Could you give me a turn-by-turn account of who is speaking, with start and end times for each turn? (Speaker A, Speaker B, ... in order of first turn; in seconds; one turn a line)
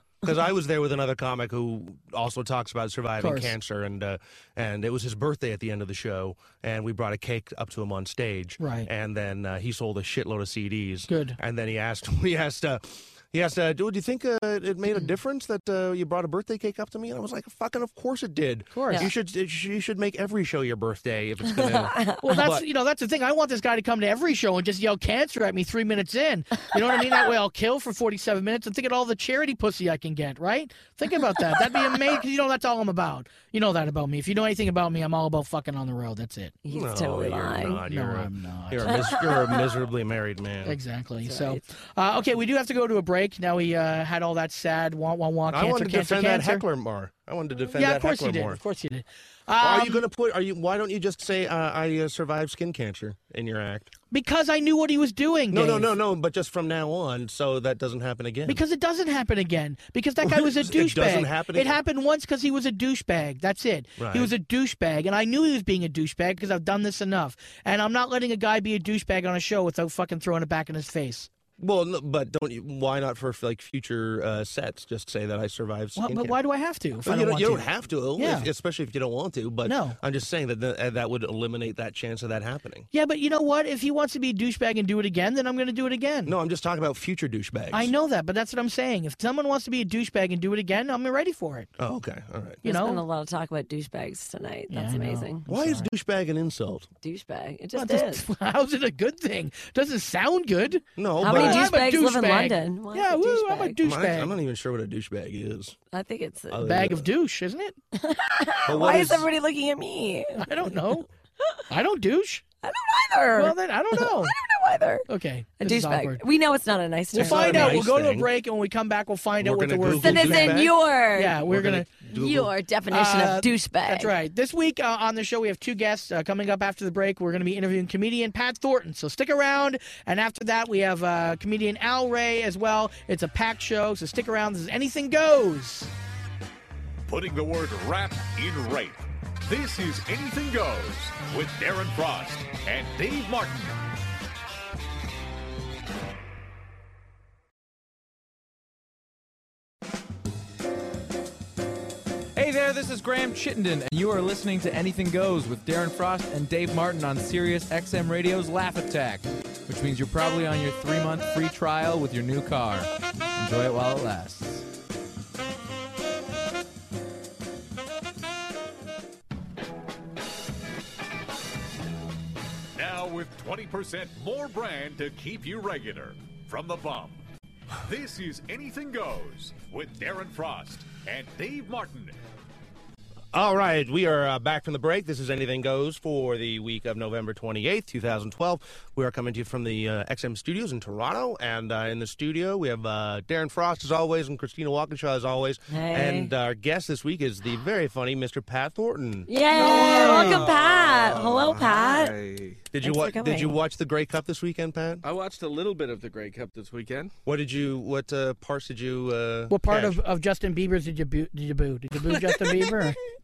Speaker A: 0.2-22.6
Speaker B: 3.2-3.5
Speaker B: 8.6-8.9
Speaker B: 11.1-11.4
Speaker B: 18.7-19.1
Speaker C: 21.7-22.2
Speaker B: 22.2-36.5
Speaker C: 36.6-37.8
Speaker A: 36.7-40.8
Speaker B: 37.9-38.9
Speaker C: 38.9-39.7
Speaker B: 40.6-46.6
Speaker C: 41.2-41.6
Speaker A: 45.5-48.6
Speaker B: 47.7-50.0
Speaker A: 49.6-53.9
Speaker B: 54.1-55.9
Speaker A: 55.5-58.6
Speaker B: 58.5-71.3
Speaker A: 60.2-61.8
Speaker A: 64.0-64.3
Speaker A: 71.6-76.3
Speaker B: 76.0-78.5
Speaker A: 77.0-82.9
Speaker B: 79.7-80.0
Speaker B: 82.9-86.3
Speaker A: 86.2-87.9
Speaker B: 87.7-91.7
Speaker A: 91.8-92.6
Speaker B: 92.6-93.0
Speaker C: 92.6-95.5
Speaker B: 94.7-95.9
Speaker A: 95.5-96.9
Speaker C: 97.0-98.2
Speaker B: 97.7-104.3
Speaker A: 101.0-101.8
Speaker C: 101.2-103.8
Speaker A: 103.8-105.8
Speaker C: 105.9-106.6
Speaker A: 106.5-107.1
Speaker B: 106.6-107.7
Speaker C: 107.9-110.8
Speaker A: 108.7-109.3
Speaker B: 110.4-111.1
Speaker B: 111.7-112.4
Speaker C: 112.6-115.0
Speaker B: 113.3-114.3
Speaker B: 115.1-116.2
Speaker C: 115.6-117.9
Speaker A: 117.1-118.3
Speaker B: 117.1-120.6
Speaker A: 119.4-120.7
Speaker C: 120.0-121.4
Speaker B: 121.1-121.9
Speaker A: 121.4-122.5
Speaker C: 122.1-124.1
Speaker B: 122.9-135.9
Speaker D: 137.1-143.8
Speaker E: 152.3-164.7
Speaker D: 172.7-177.2
Speaker D: 177.8-182.2
Speaker A: 183.3-200.5
Speaker C: 195.7-196.3
Speaker C: 199.3-202.1
Speaker F: 199.5-202.6
Speaker A: 202.7-205.0
Speaker C: 202.8-203.6
Speaker F: 205.0-207.1
Speaker A: 207.2-209.9
Speaker B: 209.5-213.0